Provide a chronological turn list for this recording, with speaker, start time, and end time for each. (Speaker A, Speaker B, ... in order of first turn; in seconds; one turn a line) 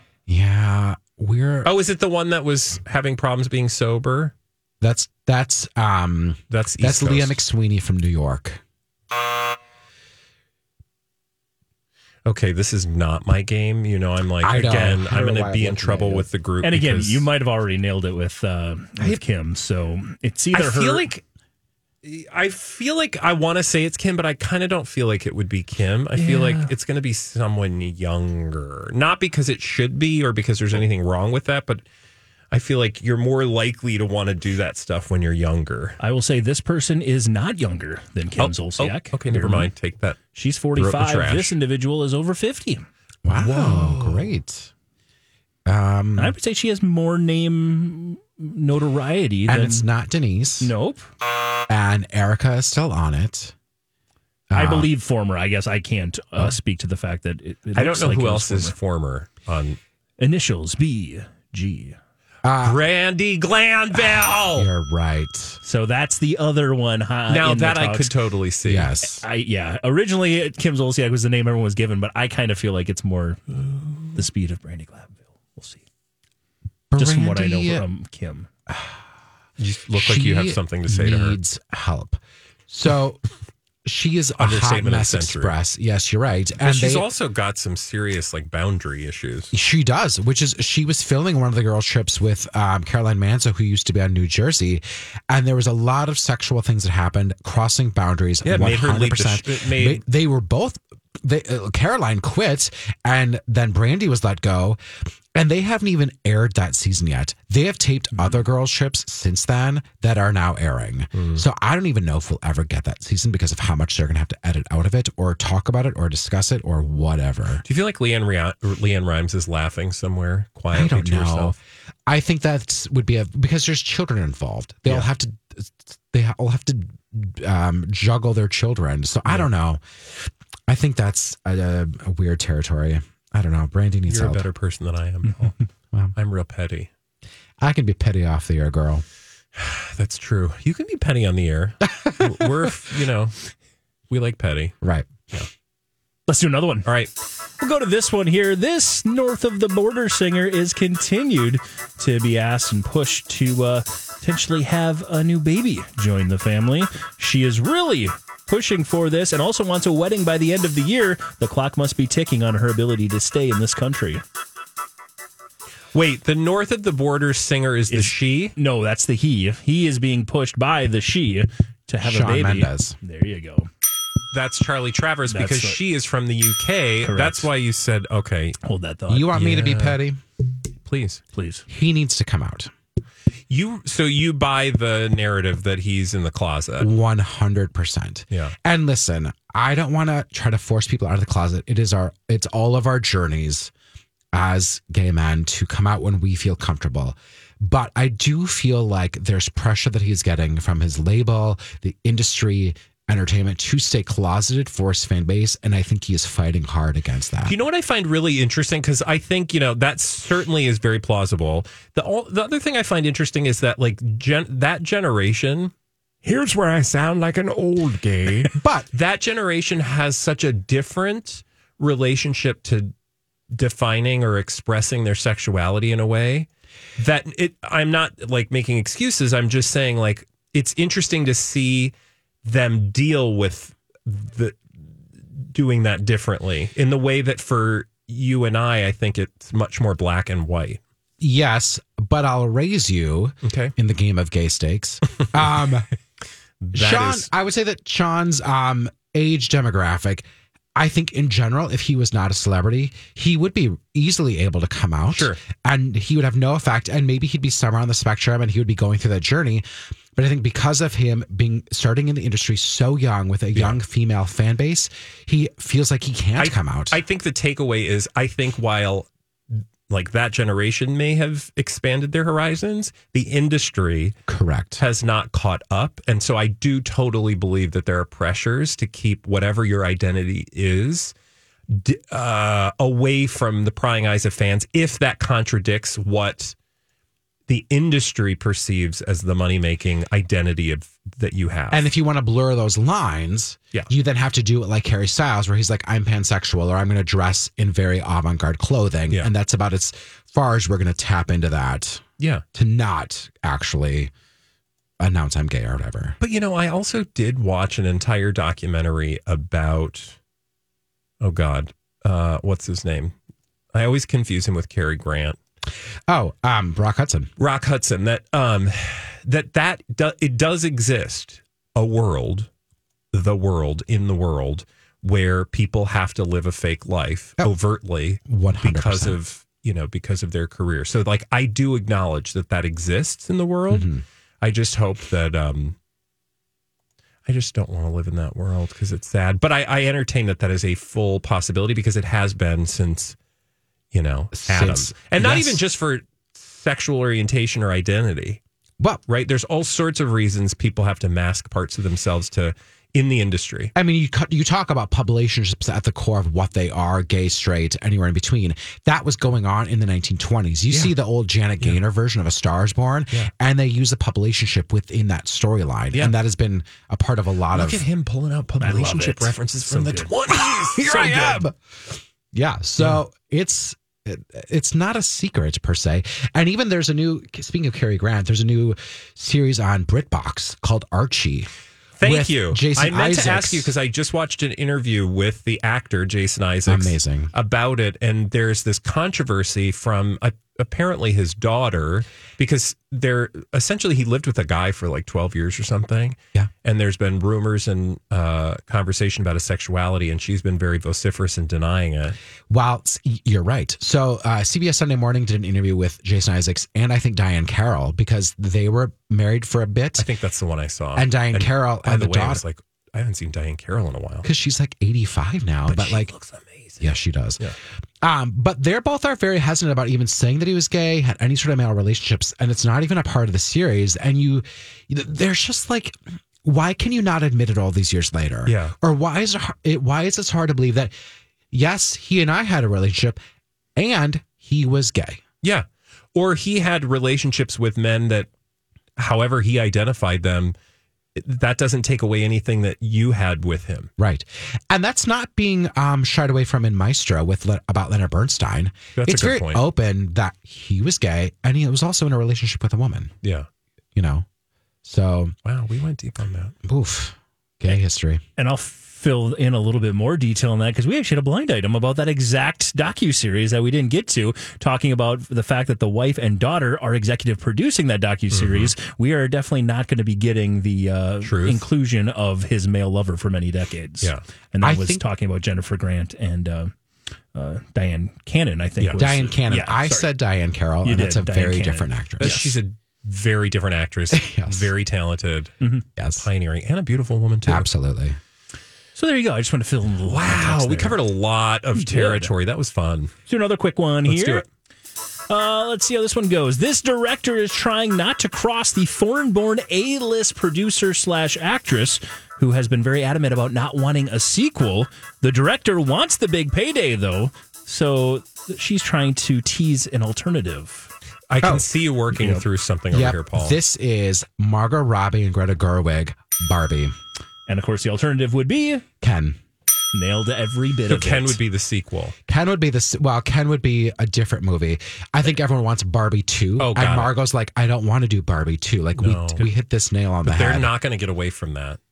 Speaker A: 0.3-1.7
Speaker B: 1.6-4.3
Speaker A: 4.8-8.6
Speaker B: 6.5-7.4
Speaker B: 12.2-17.3
Speaker A: 14.4-16.3
Speaker C: 16.6-21.1
Speaker B: 20.5-21.2
Speaker B: 22.0-31.8
Speaker C: 26.2-26.7
Speaker B: 32.5-36.0
Speaker C: 36.0-39.7
Speaker B: 38.4-40.2
Speaker C: 40.3-42.9
Speaker B: 40.8-41.5
Speaker A: 43.2-44.7
Speaker B: 43.3-44.3
Speaker A: 45.7-46.4
Speaker C: 46.2-49.9
Speaker A: 49.5-50.7
Speaker C: 50.6-51.1
Speaker A: 51.7-53.5
Speaker A: 54.5-54.9
Speaker C: 54.5-58.7
Speaker B: 57.7-59.8
Speaker C: 60.2-62.0
Speaker A: 62.4-62.8
Speaker B: 62.6-64.7
Speaker A: 64.5-65.6
Speaker C: 65.6-68.1
Speaker B: 67.3-69.0
Speaker A: 68.7-69.2
Speaker C: 69.1-73.4
Speaker C: 74.1-75.8
Speaker A: 76.9-77.9
Speaker C: 77.0-78.5
Speaker B: 79.6-81.4
Speaker A: 79.9-83.2
Speaker A: 83.8-87.1
Speaker B: 84.4-85.5
Speaker B: 86.6-89.5
Speaker A: 89.5-104.8
Speaker B: 98.4-100.0
Speaker A: 105.3-117.6
Speaker B: 111.1-111.4
Speaker B: 117.6-121.5
Speaker A: 120.7-134.5
Speaker B: 134.1-135.5
Speaker B: 136.2-136.9
Speaker A: 137.6-139.0
Speaker B: 139.6-143.4
Speaker B: 144.1-144.7
Speaker A: 144.8-145.3
Speaker C: 146.3-146.9
Speaker B: 146.9-147.1
Speaker C: 147.6-164.2
Speaker B: 165.9-168.6
Speaker C: 167.9-173.7
Speaker A: 172.0-173.0
Speaker B: 174.3-178.6
Speaker C: 175.3-175.8
Speaker C: 177.0-177.5
Speaker C: 178.6-179.6
Speaker A: 179.1-180.2
Speaker B: 179.4-180.0
Speaker B: 180.9-181.2
Speaker C: 181.3-181.6
Speaker A: 181.7-182.7
Speaker B: 183.5-186.9
Speaker A: 186.8-193.7
Speaker A: 194.3-207.6
Speaker B: 207.4-215.7
Speaker B: 216.2-222.9
Speaker A: 218.6-218.9
Speaker B: 223.5-231.9
Speaker B: 232.4-234.7
Speaker B: 235.3-240.8
Speaker A: 241.2-245.9
Speaker B: 243.4-243.7
Speaker B: 246.6-247.3
Speaker A: 246.7-267.0
Speaker B: 255.1-255.4
Speaker B: 266.4-274.2
Speaker A: 274.3-274.8
Speaker B: 274.8-281.1
Speaker B: 281.7-286.6
Speaker B: 287.5-291.9
Speaker A: 291.7-304.1
Speaker B: 302.2-302.4
Speaker A: 305.0-306.2
Speaker B: 306.2-310.2
Speaker B: 311.2-313.1
Speaker B: 313.7-315.4
Speaker A: 316.1-317.3
Speaker B: 317.4-322.5
Speaker B: 323.1-333.9
Speaker A: 328.3-329.2
Speaker A: 333.7-334.0
Speaker B: 334.4-335.8
Speaker B: 337.3-343.2
Speaker B: 343.9-348.4
Speaker A: 344.3-345.6
Speaker B: 349.1-353.7
Speaker A: 353.8-367.8
Speaker B: 367.5-371.4
Speaker C: 368.6-370.1
Speaker A: 370.3-381.5
Speaker B: 382.0-402.2
Speaker A: 382.0-383.7
Speaker A: 386.7-387.3
Speaker A: 402.5-410.1
Speaker B: 410.0-414.3
Speaker A: 410.9-412.4
Speaker A: 414.2-416.1
Speaker B: 415.7-417.6
Speaker A: 416.8-417.4
Speaker A: 418.0-430.9
Speaker B: 428.4-428.7
Speaker A: 431.5-433.2
Speaker A: 433.8-435.2
Speaker B: 435.4-438.3
Speaker B: 439.0-440.6
Speaker B: 441.2-443.9
Speaker A: 444.0-453.1
Speaker B: 448.9-449.7
Speaker B: 453.2-453.5
Speaker A: 453.9-454.3
Speaker A: 454.8-455.3
Speaker B: 455.4-456.6
Speaker A: 456.6-458.2
Speaker C: 458.4-476.7
Speaker B: 468.3-468.7
Speaker B: 471.2-471.6
Speaker A: 474.6-475.0
Speaker C: 477.3-480.1
Speaker B: 478.8-479.1
Speaker A: 479.0-482.4
Speaker C: 480.8-482.6
Speaker B: 482.2-485.5
Speaker A: 484.1-484.7
Speaker A: 486.0-486.3
Speaker B: 486.2-487.7
Speaker A: 487.4-488.2
Speaker C: 488.9-491.0
Speaker B: 490.1-493.1
Speaker C: 491.8-492.3
Speaker C: 493.3-494.4
Speaker B: 494.1-494.4
Speaker C: 495.3-510.9
Speaker B: 511.3-513.6
Speaker C: 512.1-512.5
Speaker A: 512.9-517.0
Speaker C: 517.5-518.9
Speaker A: 519.0-519.4
Speaker C: 519.9-521.4
Speaker B: 520.9-522.1
Speaker A: 522.3-530.7
Speaker B: 526.6-527.1
Speaker B: 529.0-529.5
Speaker B: 530.2-531.8